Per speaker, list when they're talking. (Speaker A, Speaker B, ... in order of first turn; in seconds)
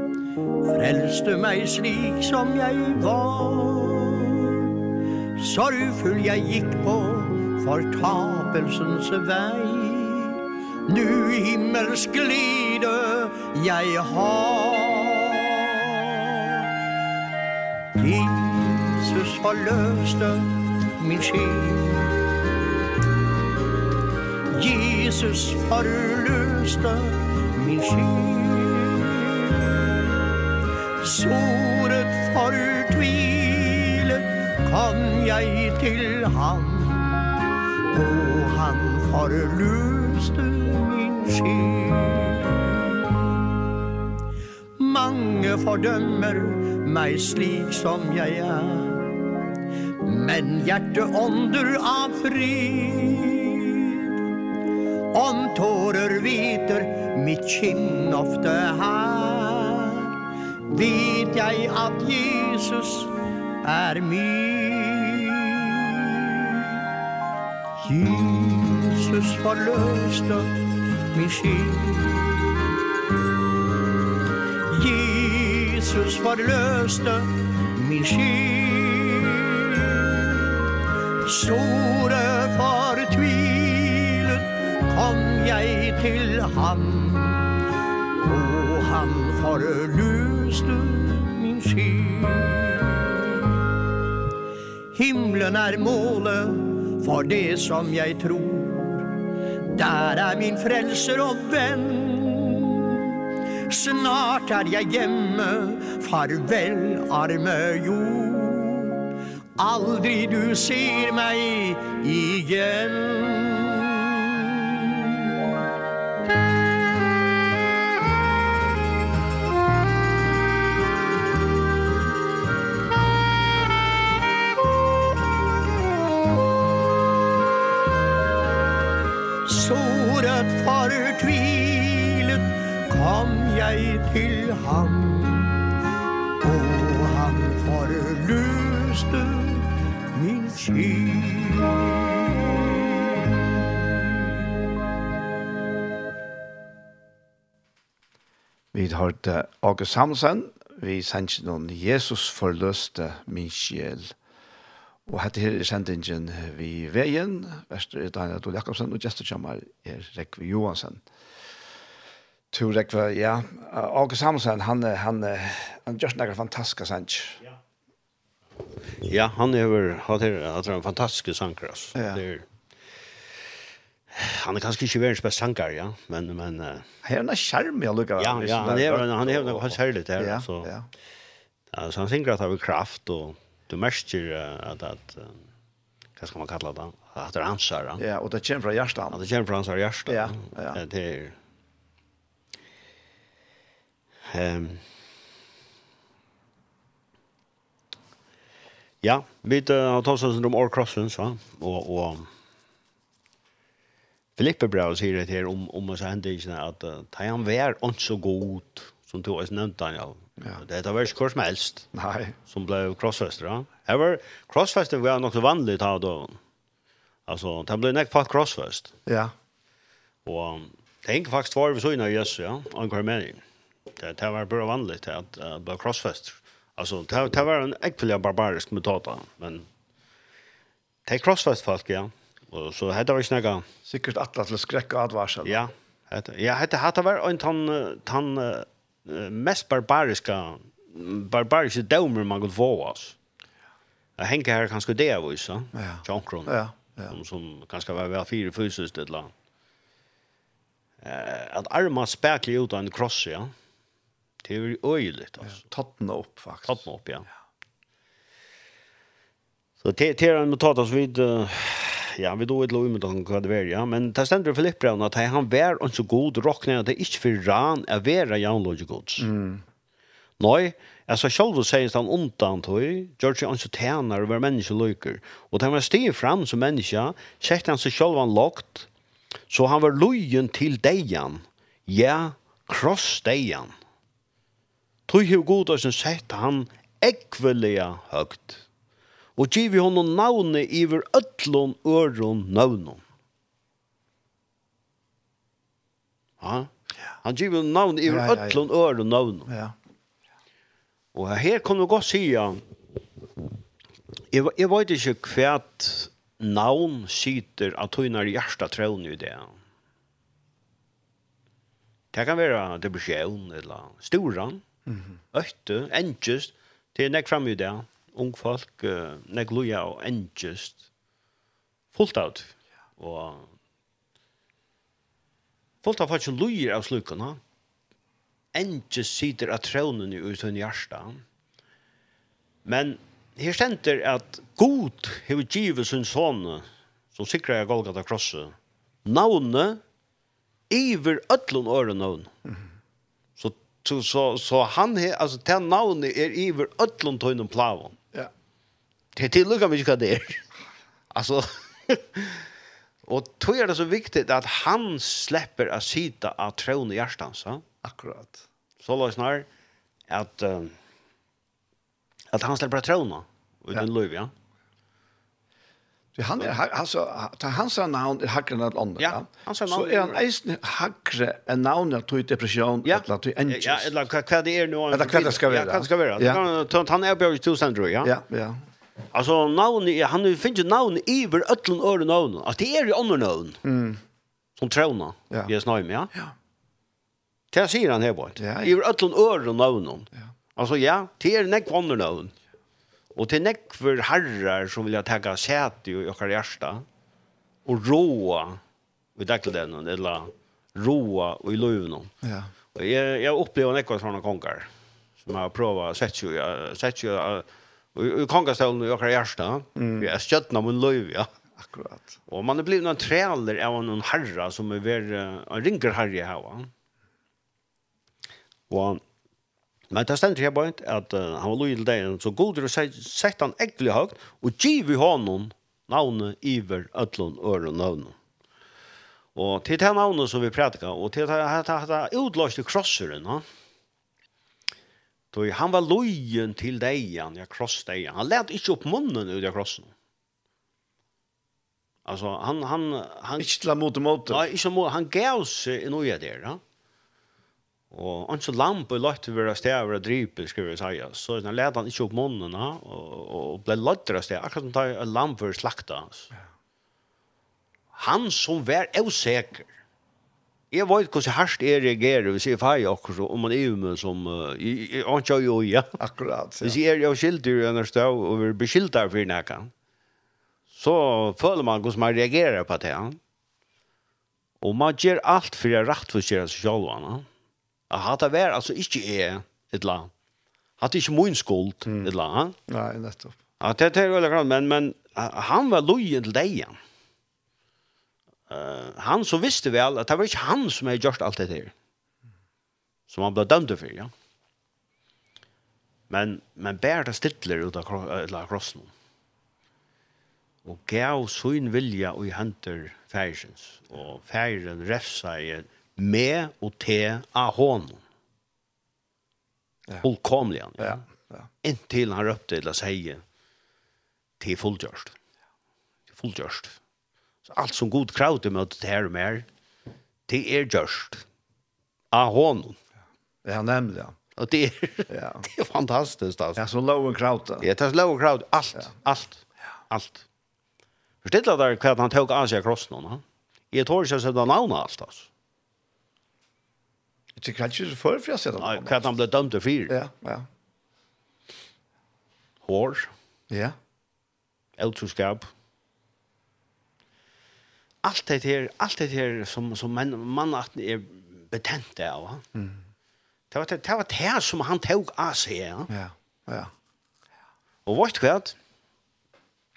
Speaker A: 0.6-4.7, 5.4-16.6, 18.0-22.2, 24.5-29.9, 31.0-37.4, 37.9-43.4, 44.8-49.1, 50.0-54.1, 55.1-60.1, 60.7-66.7, 67.8-70.6, 71.1-72.3, 74.7-80.5, 81.2-93.4, 94.9-99.1, 99.8-103.1, 103.7-109.0, 109.6-114.9, 129.4-135.6, 136.4-143.3
Speaker B: 148.7-154.2, 155.1-161.0, 162.5-167.4, 171.9-172.2, 177.0-180.9, 188.0-189.2, 190.1-190.8, 211.9-212.4, 219.1-219.3, 233.9-235.7, 245.7-247.2, 255.4-256.8, 269.2-269.6, 298.1-298.6, 299.5-299.7, 357.8-358.4, 366.1-373.9, 374.9-376.4, 378.0-378.6, 383.6-384.0, 388.4-388.7, 402.2-402.5, 409.8-410.1, 411.6-412.2, 443.4-444.5, 466.0-466.8, 481.9-482.1, 482.7-483.4, 510.8-511.5, 523.5-524.2, 525.1-525.4, 526.6-527.7, 537.4-539.0, 539.9-540.5, 543.5-543.8, 552.5-552.8, 555.9-556.7
Speaker C: 168.9-172.5, 174.1-176.9, 178.2-180.7, 181.7-185.4, 186.2-188.0, 189.1-191.4, 194.3-194.9, 199.0-202.3, 204.4-211.9, 212.5-216.4, 217.3-218.9, 220.2-223.4, 224.0-229.7, 231.1-233.7, 235.4-243.2, 244.2-246.6, 247.1-249.3, 251.0-253.5, 254.4-255.6, 256.7-257.3, 259.8-269.3, 270.4-278.9, 279.5-283.7, 285.1-288.6, 289.4-293.0, 296.4-296.7, 297.2-299.5, 301.1-302.6, 304.3-309.6, 312.1-314.6, 315.3-320.8, 321.9-323.5, 325.8-327.4, 328.5-331.2, 332.6-339.8, 340.7-342.3, 343.4-348.0, 349.1-350.5, 351.1-352.5, 353.1-357.6, 358.8-359.5, 360.1-360.8, 362.3-364.3, 369.0-370.2, 372.9-378.1, 379.1-383.6, 384.6-386.1, 387.5-392.3, 393.1-396.9, 397.6-398.6, 399.2-402.1, 402.7-404.7, 405.2-411.3, 412.3-416.7, 418.7-419.0, 419.9-428.2, 429.4-433.4, 435.3-439.9, 442.1-443.5, 444.3-446.6, 447.9-456.3, 457.9-459.7, 460.7-466.0, 466.6-469.7, 470.7-473.2, 474.6-477.3, 477.9-480.1, 480.8-482.6, 483.6-486.8, 488.5-491.7, 493.1-494.1, 496.1-498.9, 500.6-508.0, 510.0-511.0, 511.6-513.2, 514.4-515.1, 516.1-516.8, 517.5-519.5, 520.3-521.2, 522.1-522.8, 524.4-526.6, 527.6-530.2, 531.2-535.3, 538.6-540.0, 542.6-543.1, 544.8-545.5, 548.0-552.5, 553.5-555.9, 557.9-558.6